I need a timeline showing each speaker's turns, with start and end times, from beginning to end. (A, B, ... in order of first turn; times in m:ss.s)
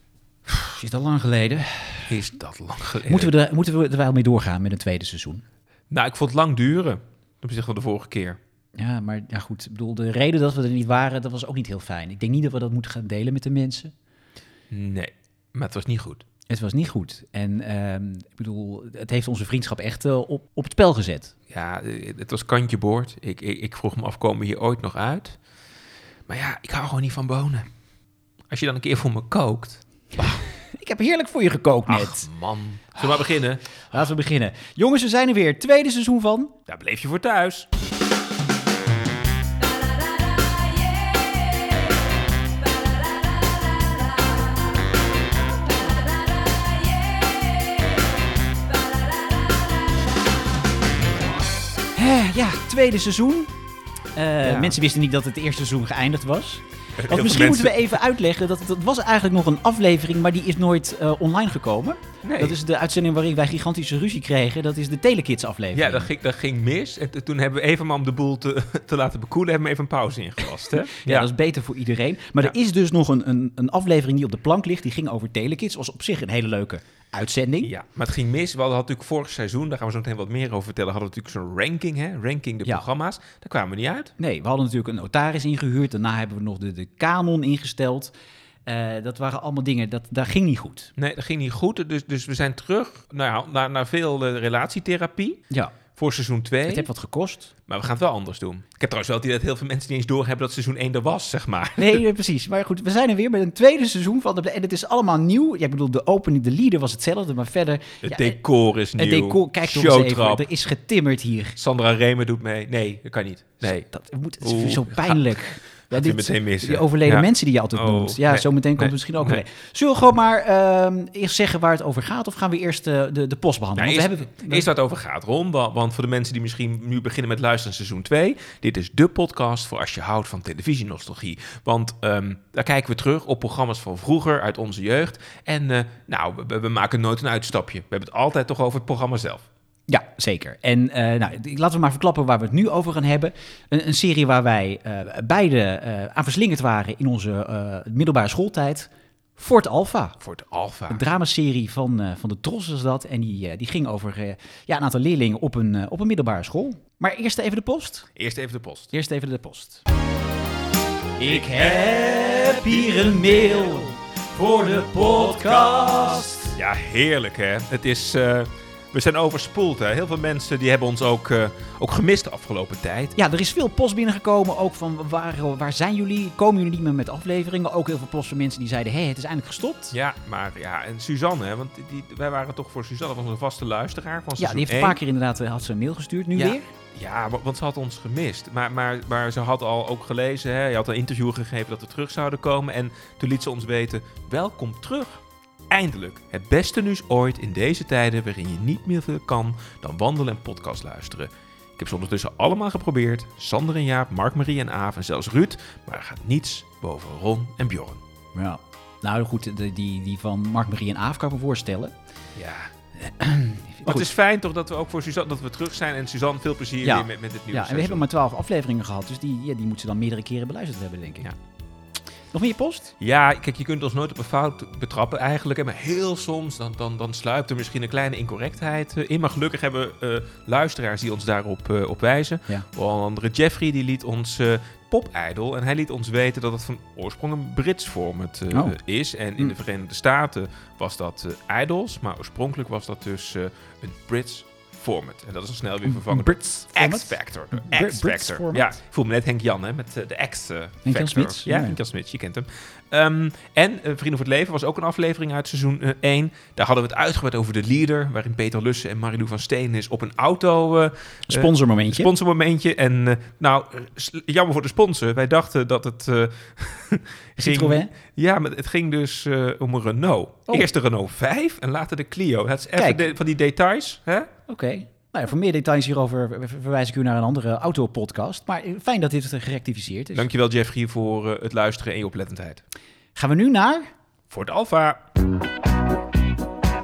0:00.6-0:02.1 A
0:02.1-0:03.3 B
0:03.1-0:05.4 A
0:05.9-0:08.4 B
0:08.8-0:13.9 A
0:14.7-0:16.2 B
0:16.5-0:21.3 A
0:21.5-0:25.4 B
0:26.3-0:27.7 B
0:28.5-0:30.4 B
0:30.2-0:32.3 A
0:31.9-0:33.6 B
0:33.9-0:36.5 A
0:36.7-0:37.7 B
0:52.0-0:53.5 A
0:54.2-1:06.1 A
0:54.4-0:54.7 B
0:57.0-0:57.8 B
1:02.2-1:02.6 B
1:05.7-1:11.3 B
1:10.9-1:17.7 A
1:17.6-1:24.1 B
1:24.2-1:28.1 A
1:28.7-1:30.9 A
1:31.0-1:35.4 B
1:36.0-1:36.9 B
1:36.7-1:37.5 A
1:37.7-1:42.0 B
1:41.8-1:48.4 A
1:48.0-1:50.4 B
1:49.0-1:51.6 A
1:51.6-1:53.9 B
1:53.6-2:04.7 A
1:54.4-1:55.2 B
1:55.9-1:59.4 B
2:03.8-2:19.5 B
2:19.9-2:30.2 A
2:30.2-2:31.0 B
2:30.9-2:38.1 A
2:38.2-2:38.9 B
2:38.9-2:39.8 A
2:41.2-2:46.6 A
2:46.6-2:53.2 B
2:53.2-3:00.0 A
2:59.9-3:05.0 B
3:04.4-3:06.6 A
3:06.4-3:28.0 B
3:28.4-3:31.9 A
3:32.4-3:32.7 B
3:33.0-3:34.1 A
3:33.8-3:38.1 B
3:36.8-3:41.3 A
3:42.3-3:42.9 A
3:43.0-4:34.3 B
3:58.5-3:58.8 A
4:05.9-4:08.7 A
4:10.8-4:11.8 A
4:21.3-4:22.1 A
4:27.4-4:27.9 A
4:32.8-4:33.1 A
4:34.5-4:40.3 A
4:40.1-4:42.6 B
4:43.2-4:43.9 A
4:44.3-4:45.0 B